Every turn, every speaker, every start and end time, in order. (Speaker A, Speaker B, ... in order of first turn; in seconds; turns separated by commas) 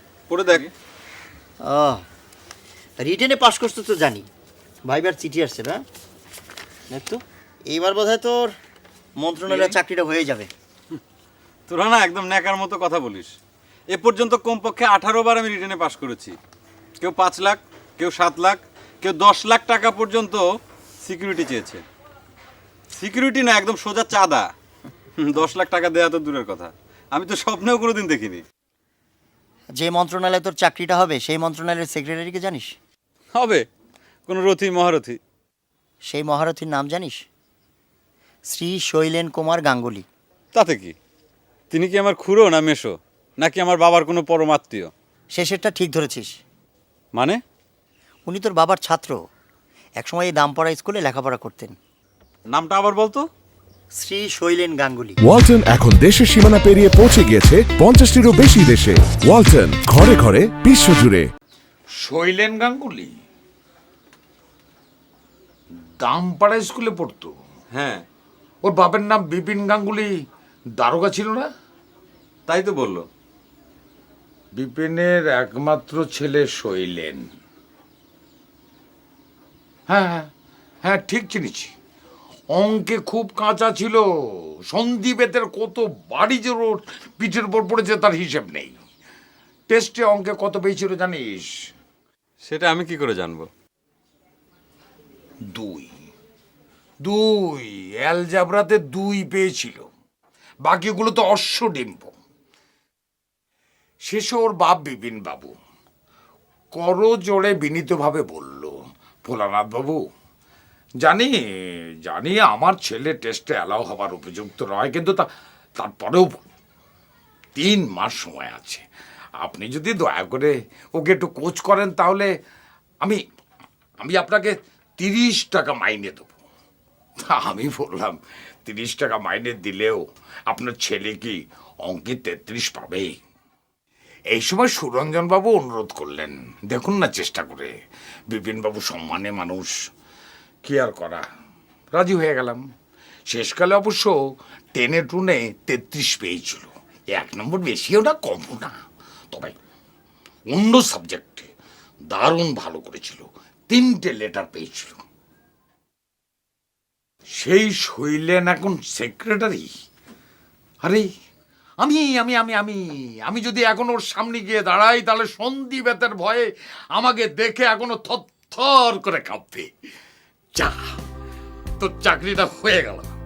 Speaker A: 0.3-0.7, Speaker B: 1.6-2.0, Speaker B: 3.0-4.3, Speaker B: 4.8-5.8, Speaker B: 6.9-8.5, Speaker B: 9.2-10.5, Speaker A: 9.5-9.8, Speaker A: 11.7-13.3, Speaker A: 13.9-16.4, Speaker A: 17.0-20.4, Speaker A: 21.0-21.8, Speaker A: 22.9-24.5, Speaker A: 25.2-28.4, Speaker B: 29.8-32.8, Speaker A: 33.3-33.6, Speaker A: 34.3-35.2, Speaker B: 36.1-37.2, Speaker B: 38.5-40.1, Speaker A: 40.5-40.9, Speaker A: 41.7-44.9, Speaker B: 45.3-46.4, Speaker A: 47.1-47.4, Speaker B: 48.3-49.2, Speaker B: 50.0-51.8, Speaker A: 52.5-53.2, Speaker B: 54.0-55.2, Speaker C: 55.2-61.2, Speaker D: 62.0-63.1, Speaker D: 66.0-67.3, Speaker A: 67.7-68.0, Speaker D: 68.6-70.1, Speaker D: 70.8-71.5, Speaker A: 72.5-73.0, Speaker D: 74.5-77.2, Speaker D: 79.9-80.3, Speaker D: 80.8-81.7, Speaker D: 82.5-88.7, Speaker D: 89.7-91.5, Speaker A: 92.4-93.5, Speaker D: 95.5-95.9, Speaker D: 97.0-99.8, Speaker D: 100.6-102.1, Speaker D: 104.0-105.5, Speaker D: 106.8-108.7, Speaker D: 109.2-110.0, Speaker D: 111.0-115.3, Speaker D: 115.8-116.4, Speaker D: 117.5-118.8, Speaker D: 119.4-122.3, Speaker D: 124.0-126.3, Speaker D: 127.2-133.2, Speaker D: 134.3-137.7, Speaker D: 138.3-139.7, Speaker D: 140.6-141.2, Speaker D: 141.9-142.6, Speaker D: 143.3-144.1, Speaker D: 144.7-148.7, Speaker D: 149.3-149.6, Speaker D: 150.5-151.5, Speaker D: 152.1-155.0, Speaker D: 157.3-159.7, Speaker D: 161.8-169.7, Speaker D: 170.6-170.9, Speaker D: 171.8-173.1